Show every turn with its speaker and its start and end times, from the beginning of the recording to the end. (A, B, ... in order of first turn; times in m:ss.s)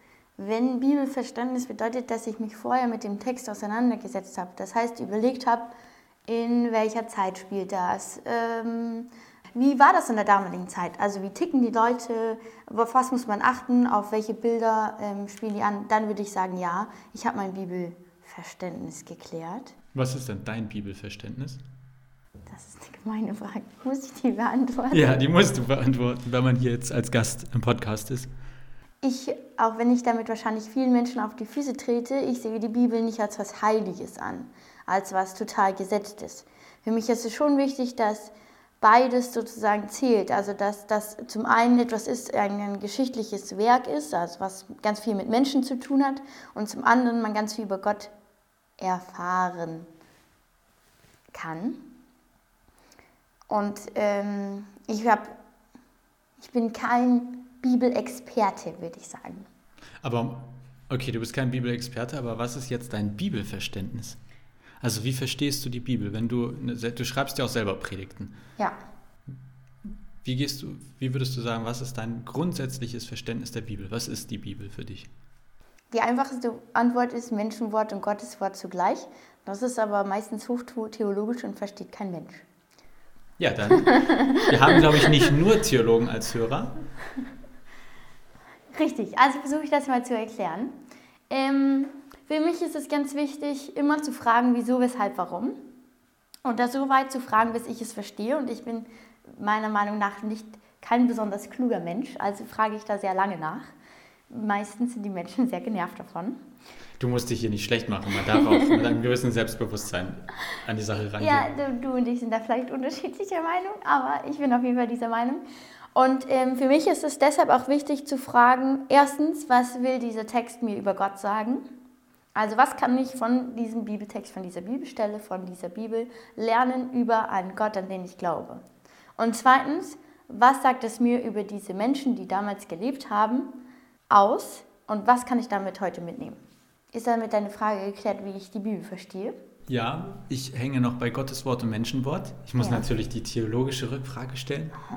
0:00.4-0:05.7 A
0:06.3-0:19.7 A
0:19.9-0:21.6 B
0:22.5-0:25.1 A
0:24.9-0:28.3 B
0:29.0-0:48.1 A
0:48.8-0:49.9 A
0:51.3-0:51.9 A
0:53.5-0:55.3 A
0:56.4-0:59.5 A
1:00.0-1:04.2 B
1:04.8-1:08.3 B
1:10.2-1:15.1 B
1:15.9-1:22.4 A
1:23.4-1:26.8 B
1:23.9-1:25.0 A
1:28.7-1:30.8 A
1:31.3-1:35.6 A
1:36.4-1:43.7 A
1:44.3-1:46.4 A
1:47.0-1:51.5 B
1:51.2-1:55.4 A
1:55.9-2:01.6 A
2:02.4-2:08.6 A
2:09.2-2:13.6 A
2:14.1-2:16.4 A
2:16.9-2:19.4 A
2:19.7-2:24.8 B
2:22.6-2:22.8 A